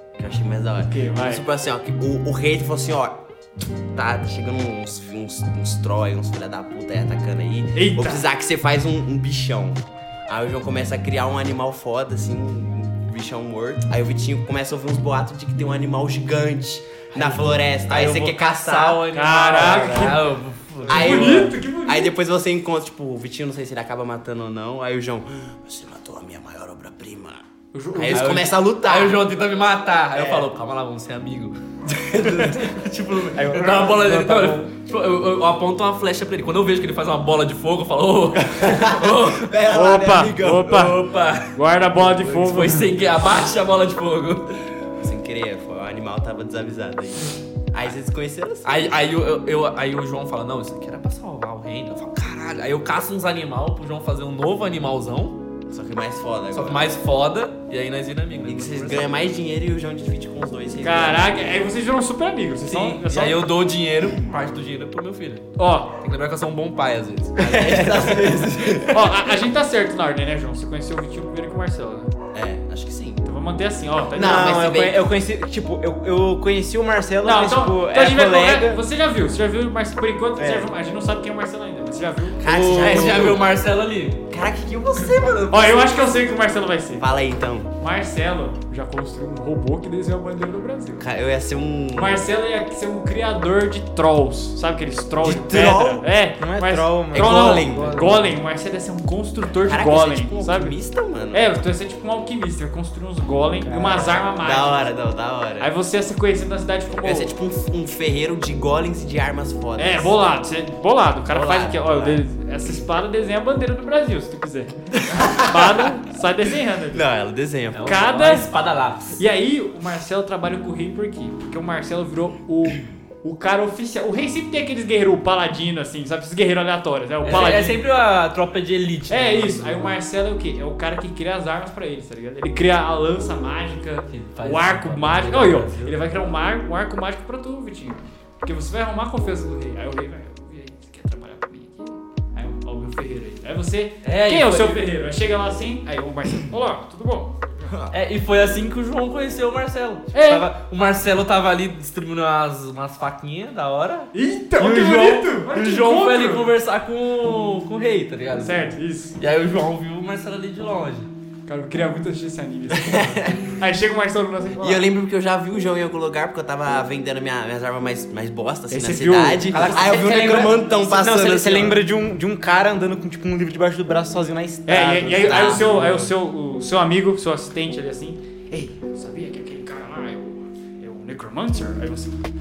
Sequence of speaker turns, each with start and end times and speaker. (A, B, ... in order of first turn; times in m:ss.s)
0:00.2-0:03.2 A
0:00.9-0:01.4 B
0:03.9-0:19.0 A
0:07.7-0:08.2 B
0:17.2-0:21.5 C
0:19.1-0:20.3 B
0:19.5-0:20.1 A
0:20.9-0:22.1 B
0:20.9-0:29.3 A
0:27.7-0:28.4 B
0:28.1-0:31.6 C
0:30.1-0:30.5 A
0:32.1-0:39.6 C
0:32.1-0:32.6 A
0:33.3-0:34.7 D
0:38.6-0:40.8 A
0:39.7-0:42.9 B
0:40.5-0:44.6 C
0:45.0-0:48.9 A
0:48.6-0:55.4 C
0:55.7-0:56.9 A
0:56.5-0:59.3 C
0:58.4-1:01.4 A
1:00.8-1:03.4 B
1:02.7-1:05.5 C
1:05.6-1:05.9 B
1:06.0-1:08.5 C
1:07.4-1:09.1 A
1:07.6-1:08.3 D
1:08.9-1:12.1 B
1:12.3-1:13.2 A
1:13.2-1:14.7 B
1:14.1-1:15.0 A
1:14.2-1:18.8 D
1:17.2-1:22.4 B
1:20.4-1:20.7 D
1:22.4-1:23.5 A
1:22.4-1:24.2 C
1:24.3-1:26.1 A
1:25.5-1:27.0 B
1:27.0-1:27.7 A
1:27.8-1:31.1 B
1:31.0-1:32.2 A
1:31.9-1:40.8 B
1:35.2-1:36.0 A
1:36.4-1:38.2 D
1:37.1-1:38.0 A
1:37.6-1:38.2 C
1:39.5-1:41.6 A
1:41.3-1:44.9 B
1:43.6-1:44.2 D
1:44.4-1:45.7 A
1:45.6-1:47.4 B
1:47.0-1:50.1 A
1:49.8-1:57.0 B
1:51.3-1:52.2 A
1:55.0-1:55.9 A
1:56.9-1:58.0 A
1:57.7-1:59.2 C
1:57.8-1:58.5 B
1:59.2-2:07.8 B
2:07.2-2:09.9 C
2:09.1-2:27.7 B
2:14.1-2:16.0 C
2:24.0-2:24.9 C
2:27.9-2:38.6 C
2:30.1-2:30.5 B
2:34.1-2:36.5 B
2:38.4-2:39.2 B
2:39.2-2:41.1 C
2:41.5-2:44.8 B
2:42.7-2:43.5 A
2:44.6-2:51.8 A
2:48.7-2:50.1 B
2:49.5-2:56.0 D
2:54.7-2:58.2 B
2:55.2-2:56.0 A
2:58.7-3:02.2 B